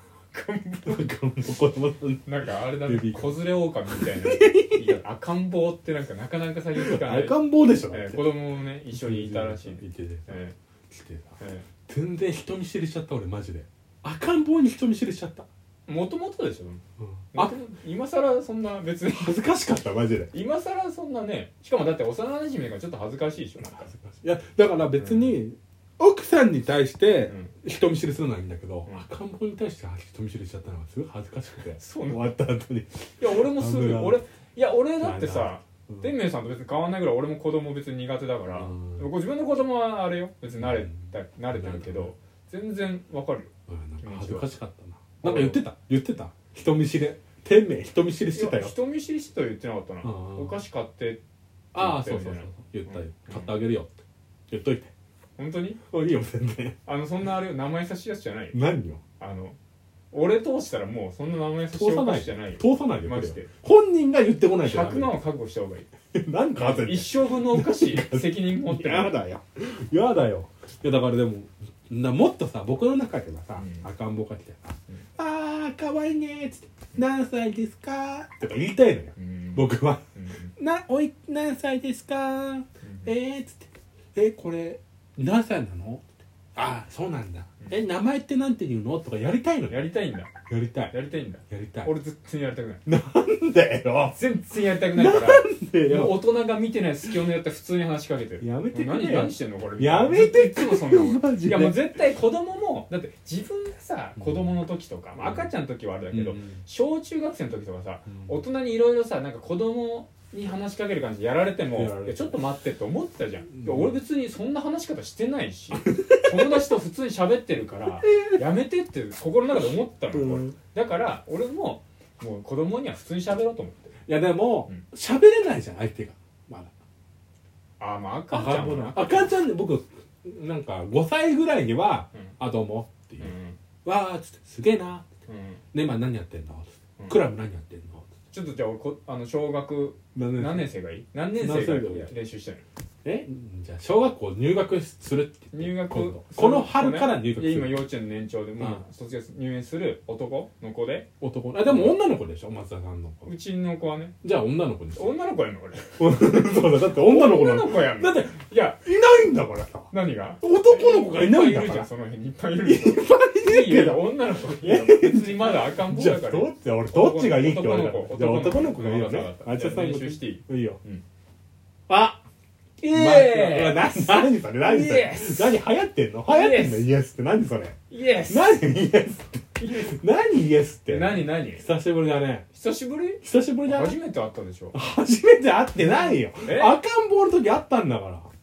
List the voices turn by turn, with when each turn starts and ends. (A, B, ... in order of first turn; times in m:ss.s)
0:00.3-0:01.1 A
0:00.8-0:05.0 B
0:02.2-0:07.4 A
0:06.8-0:08.2 B
0:07.9-0:10.6 A
0:08.9-0:15.5 B
0:11.4-0:11.7 A
0:15.9-0:16.8 A
0:17.0-0:17.5 B
0:17.3-0:19.4 A
0:19.1-0:20.3 B
0:20.3-0:23.9 A
0:23.6-0:34.2 B
0:25.0-0:25.4 A
0:27.3-0:27.5 A
0:31.8-0:32.3 A
0:33.2-0:43.5 A
0:35.0-0:36.1 B
0:38.5-0:39.0 B
0:40.6-0:42.1 B
0:43.7-0:48.7 B
0:44.0-0:44.5 A
0:45.2-0:45.6 A
0:48.3-0:51.2 A
0:50.0-0:50.6 B
0:51.7-0:53.9 B
0:51.7-0:53.6 A
0:54.5-0:54.9 B
0:55.4-0:55.8 A
0:55.9-0:56.8 B
0:56.8-0:58.6 A
0:58.5-0:59.0 B
0:59.2-0:59.6 A
1:00.1-1:03.5 A
1:01.7-1:05.2 B
1:04.6-1:05.9 A
1:06.1-1:20.0 B
1:06.5-1:09.2 A
1:13.6-1:13.9 A
1:19.2-1:20.5 A
1:20.6-1:26.0 B
1:22.8-1:23.1 A
1:26.6-1:29.8 B
1:29.7-1:30.3 A
1:30.5-1:30.9 B
1:30.9-1:32.8 A
1:31.5-1:31.9 B
1:32.8-1:34.2 B
1:34.1-2:03.9 A
1:34.9-1:36.3 B
1:38.4-1:41.9 B
1:44.2-1:44.6 B
1:45.2-1:45.5 B
1:46.1-1:46.6 B
1:48.1-1:48.4 B
1:51.7-1:52.4 B
1:53.5-1:54.0 B
1:55.7-1:56.6 B
1:58.0-1:58.4 B
1:59.5-2:00.5 B
2:04.1-2:06.7 B
2:07.8-2:09.3 A
2:08.3-2:15.0 B
2:13.2-2:13.6 A
2:15.3-2:15.6 A
2:15.7-2:18.1 B
2:18.3-2:22.6 A
2:20.1-2:20.7 B
2:21.4-2:22.1 B
2:23.0-2:27.9 B
2:25.5-2:31.1 A
2:31.2-2:33.3 B
2:31.7-2:32.0 A
2:33.2-2:34.2 A
2:34.2-2:35.2 B
2:35.0-2:38.8 A
2:36.0-2:41.9 B
2:39.9-2:51.0 A
2:42.6-2:50.8 B
2:51.9-2:52.2 B
2:52.8-2:55.6 A
2:52.8-3:02.5 B
2:56.3-2:56.9 A
2:57.9-2:58.7 A
2:59.6-3:00.0 A
3:00.9-3:01.6 A
3:02.5-3:04.8 A
3:03.2-3:04.0 B
3:04.7-3:08.3 B
3:05.8-3:06.8 A